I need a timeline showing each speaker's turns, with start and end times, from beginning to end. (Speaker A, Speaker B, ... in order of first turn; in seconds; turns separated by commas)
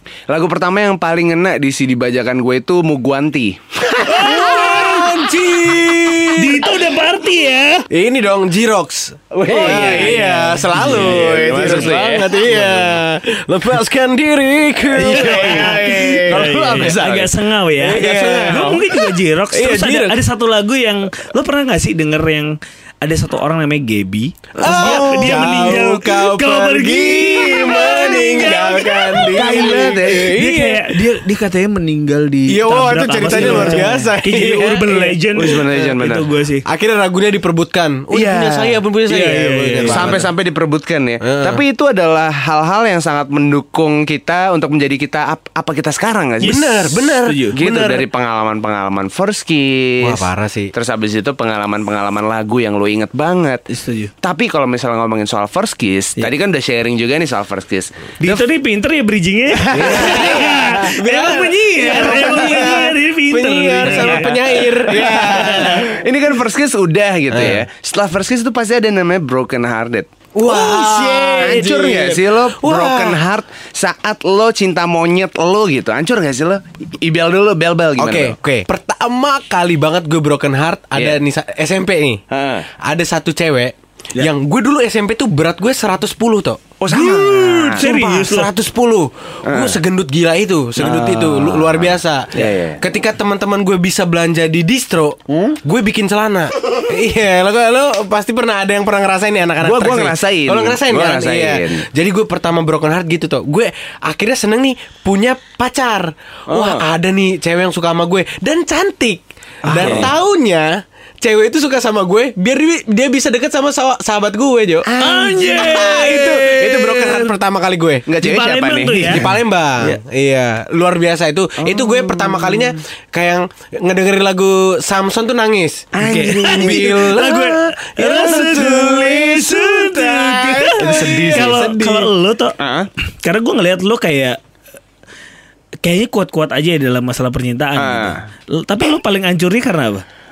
Speaker A: 0.3-4.3, Speaker B: 4.0-5.2, Speaker C: 4.2-6.7, Speaker B: 6.3-7.9, Speaker C: 7.9-17.0, Speaker A: 9.3-12.8, Speaker B: 9.5-12.0, Speaker A: 15.0-17.3, Speaker B: 15.0-36.6, Speaker C: 17.8-20.2, Speaker A: 18.0-18.8, Speaker C: 24.6-31.0, Speaker A: 24.6-25.8, Speaker A: 29.3-30.4, Speaker C: 32.5-35.2, Speaker A: 33.3-33.9, Speaker A: 35.4-36.3, Speaker C: 36.6-40.3, Speaker A: 38.1-38.8, Speaker B: 39.1-40.2, Speaker A: 39.9-47.0, Speaker C: 41.2-41.6, Speaker C: 46.4-48.1, Speaker B: 47.2-47.6, Speaker A: 47.5-53.6, Speaker C: 50.0-50.7, Speaker B: 53.7-54.1, Speaker A: 54.2-58.4, Speaker B: 58.2-65.8, Speaker A: 59.6-60.4, Speaker C: 59.7-65.9, Speaker A: 63.9-78.4, Speaker C: 67.3-67.7, Speaker C: 70.3-73.2, Speaker B: 70.5-71.6, Speaker C: 78.0-82.2, Speaker A: 82.3-82.7, Speaker C: 82.8-118.0, Speaker A: 86.8-87.8, Speaker B: 87.8-88.5, Speaker A: 89.5-89.8, Speaker A: 90.8-92.8, Speaker A: 99.6-101.9, Speaker A: 106.5-106.8, Speaker A: 109.7-110.1, Speaker B: 109.7-110.1, Speaker A: 115.0-117.3, Speaker B: 115.0-116.3, Speaker A: 118.1-119.3, Speaker B: 118.2-119.3, Speaker C: 119.1-132.1, Speaker A: 121.6-122.8, Speaker A: 125.9-127.2, Speaker B: 126.0-134.4, Speaker A: 128.1-131.7, Speaker A: 132.6-132.9, Speaker B: 135.8-140.1, Speaker A: 137.8-138.2